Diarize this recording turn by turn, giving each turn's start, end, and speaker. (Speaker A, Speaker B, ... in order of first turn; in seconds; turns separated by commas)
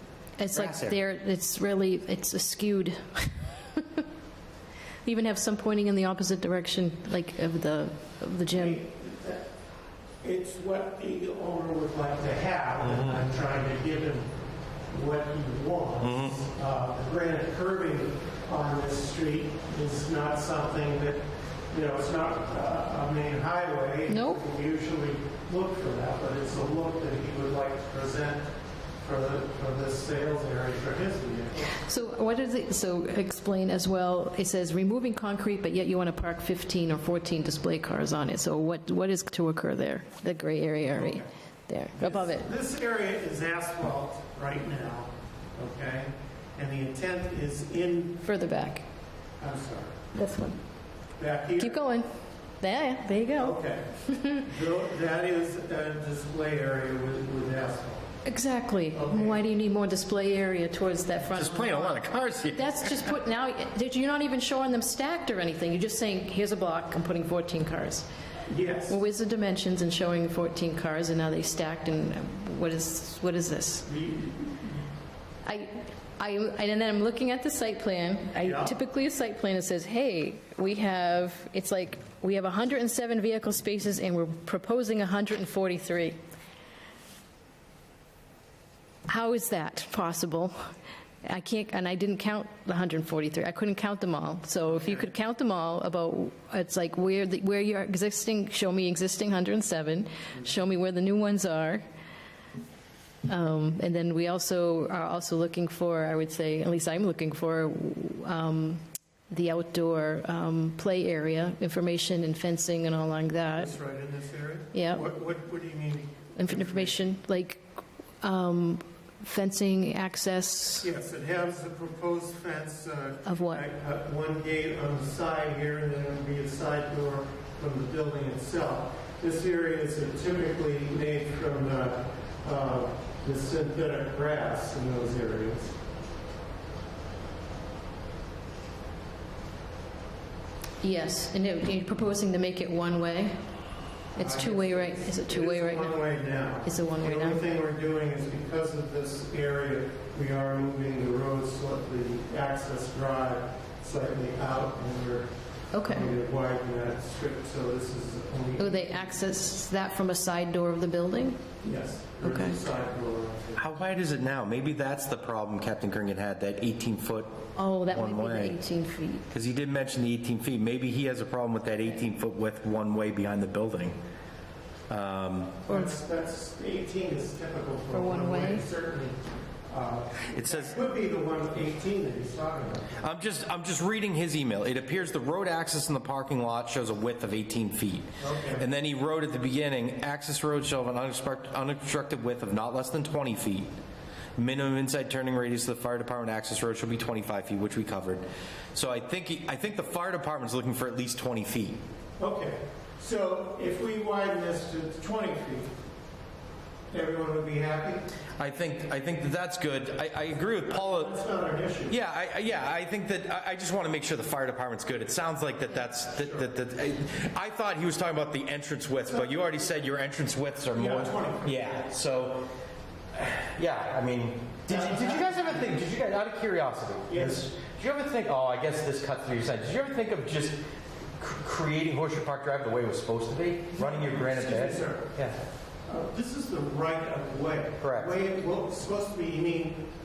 Speaker A: 0.4-4.0, Speaker B: 0.5-1.0, Speaker A: 5.0-8.8, Speaker C: 8.5-9.5, Speaker C: 10.2-14.3, Speaker B: 12.8-13.2, Speaker C: 14.9-28.5, Speaker B: 16.0-16.4, Speaker A: 24.1-24.4, Speaker C: 29.0-31.8, Speaker A: 31.8-42.5, Speaker C: 40.9-41.3, Speaker C: 42.0-48.2, Speaker A: 48.2-48.8, Speaker C: 49.4-50.0, Speaker A: 50.1-50.6, Speaker C: 51.2-51.9, Speaker A: 51.6-52.1, Speaker A: 52.6-53.6, Speaker C: 53.4-58.0, Speaker A: 54.1-54.4, Speaker A: 58.2-68.1, Speaker C: 58.9-59.4, Speaker B: 61.4-63.2, Speaker C: 68.5-69.0, Speaker A: 68.9-73.9, Speaker C: 73.9-74.8, Speaker A: 75.5-86.2, Speaker C: 78.4-78.7, Speaker A: 89.1-90.5, Speaker A: 91.2-101.8, Speaker A: 103.3-113.7, Speaker C: 113.5-117.0, Speaker A: 114.7-115.0, Speaker A: 116.4-117.6, Speaker A: 118.2-120.9, Speaker C: 120.8-135.8, Speaker A: 123.2-123.6, Speaker A: 140.8-143.3, Speaker A: 144.2-146.0, Speaker C: 144.2-155.3, Speaker A: 146.6-147.4, Speaker A: 155.7-156.1, Speaker C: 155.8-159.2, Speaker A: 158.6-161.4, Speaker C: 161.6-163.7, Speaker A: 162.2-162.6, Speaker B: 163.6-168.6, Speaker A: 167.6-169.2, Speaker B: 169.3-174.0, Speaker B: 174.9-175.7, Speaker C: 175.7-183.0, Speaker A: 177.9-178.6, Speaker B: 180.3-180.8, Speaker B: 183.0-193.7, Speaker C: 188.2-188.7, Speaker B: 194.4-198.2, Speaker B: 198.7-201.8, Speaker C: 202.2-205.7, Speaker C: 206.9-208.1, Speaker B: 208.4-211.1, Speaker C: 210.7-212.0, Speaker B: 211.9-222.5, Speaker C: 216.1-216.5, Speaker C: 219.1-219.6, Speaker C: 220.7-221.6, Speaker B: 223.1-230.6, Speaker C: 224.7-225.9, Speaker C: 227.1-227.5, Speaker B: 231.2-235.4, Speaker C: 233.7-235.2, Speaker C: 235.9-239.9, Speaker B: 237.8-238.1